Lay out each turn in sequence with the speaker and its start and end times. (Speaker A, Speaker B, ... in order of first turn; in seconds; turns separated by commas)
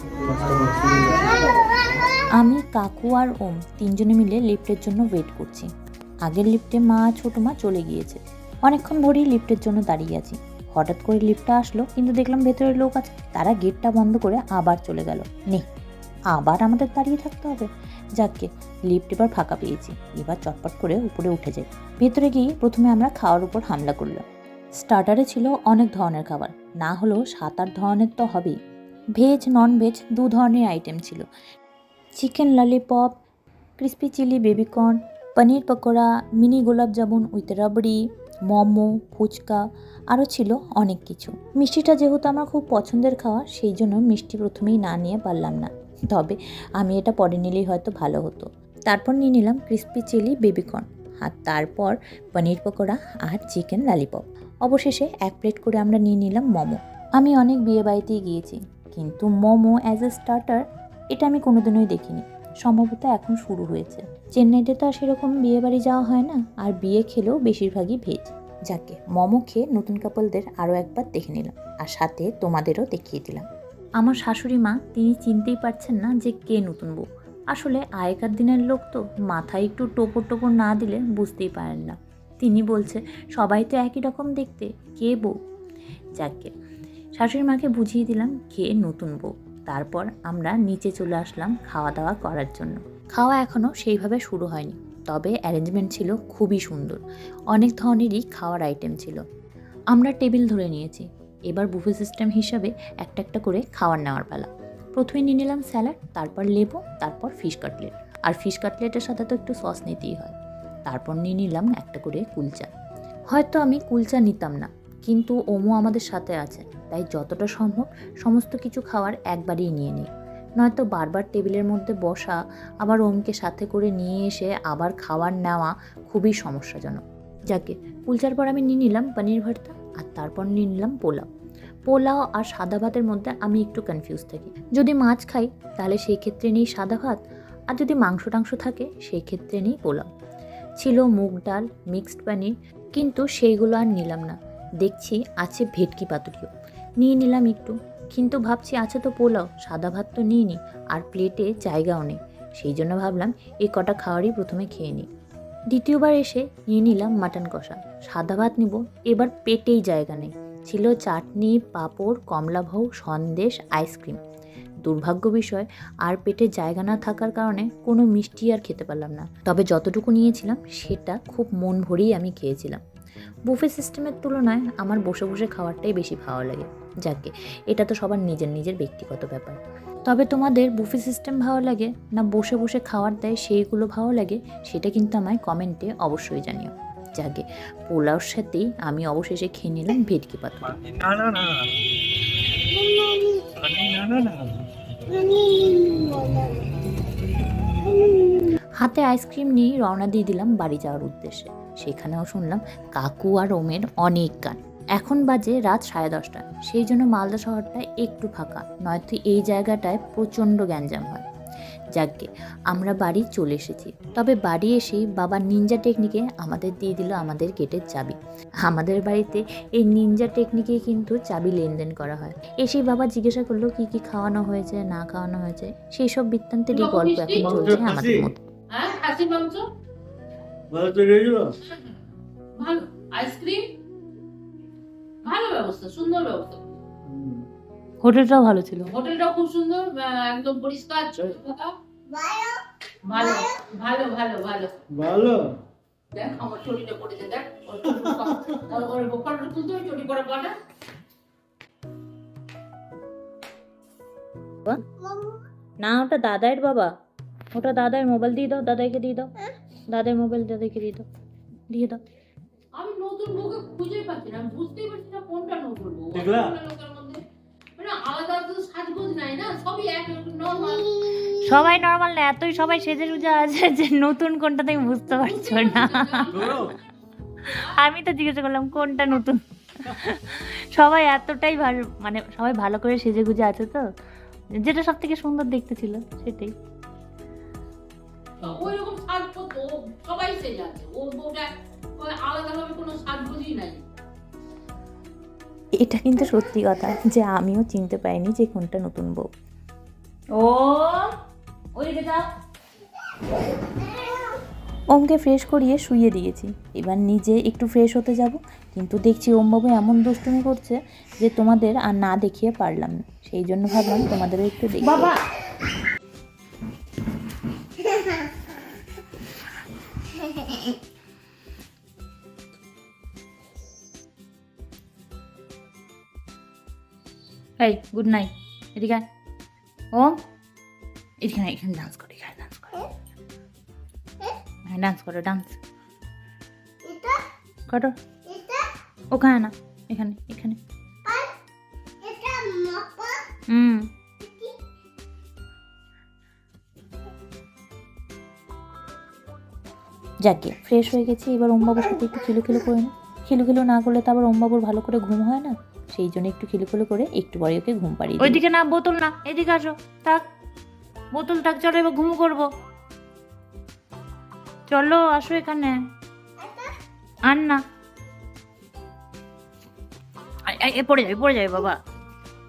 Speaker A: 0.3-1.3, Speaker B: 2.4-5.7, Speaker B: 6.3-15.7, Speaker B: 16.3-17.7, Speaker B: 18.2-24.2, Speaker B: 24.8-28.6, Speaker B: 29.2-31.2, Speaker B: 32.2-33.1, Speaker B: 33.8-38.0, Speaker B: 38.5-39.6, Speaker B: 40.1-60.6, Speaker B: 61.1-73.5, Speaker B: 74.0-85.3, Speaker B: 86.2-86.5, Speaker B: 87.2-97.0, Speaker B: 97.5-99.2, Speaker B: 99.9-110.3, Speaker B: 110.9-112.7, Speaker B: 113.3-120.1, Speaker B: 120.6-131.2, Speaker B: 131.9-137.2, Speaker B: 137.7-140.1, Speaker B: 140.8-146.5, Speaker B: 147.0-155.1, Speaker B: 155.7-164.2, Speaker B: 164.8-172.8, Speaker B: 173.5-190.8, Speaker A: 190.7-191.7, Speaker A: 193.6-194.7, Speaker C: 195.2-196.4, Speaker B: 198.8-211.2, Speaker B: 212.0-218.2, Speaker B: 218.7-228.4, Speaker D: 226.7-227.6, Speaker A: 227.4-228.3, Speaker D: 228.7-229.6, Speaker A: 230.7-231.5, Speaker D: 232.6-233.7, Speaker D: 235.2-236.8, Speaker A: 237.1-237.4, Speaker E: 238.0-238.9, Speaker D: 238.9-241.7, Speaker C: 242.1-242.6, Speaker D: 243.1-244.8, Speaker C: 243.2-243.6, Speaker A: 244.9-245.5, Speaker D: 246.2-250.6, Speaker E: 255.8-256.9, Speaker E: 257.6-259.3, Speaker E: 259.9-261.0, Speaker E: 261.7-262.0, Speaker D: 262.8-267.2, Speaker A: 266.1-266.6, Speaker D: 267.8-270.9, Speaker E: 271.3-276.3, Speaker D: 275.2-276.6, Speaker A: 276.3-276.7, Speaker D: 277.4-277.8, Speaker E: 277.7-283.9, Speaker E: 284.6-286.5, Speaker D: 288.4-293.8, Speaker B: 295.8-299.3, Speaker E: 300.4-301.1, Speaker E: 301.8-302.3, Speaker B: 304.9-315.1, Speaker E: 314.8-315.2, Speaker E: 327.6-329.1, Speaker E: 331.2-332.8, Speaker E: 334.7-335.6, Speaker C: 336.9-337.2, Speaker C: 338.3-338.7, Speaker E: 339.1-340.6, Speaker C: 341.1-341.3, Speaker C: 342.0-343.2, Speaker E: 343.5-343.8, Speaker C: 344.2-344.5, Speaker B: 350.3-358.4, Speaker E: 358.2-360.2, Speaker E: 361.1-362.4, Speaker E: 364.7-365.8, Speaker C: 366.4-366.7, Speaker E: 367.3-367.6, Speaker E: 370.5-371.8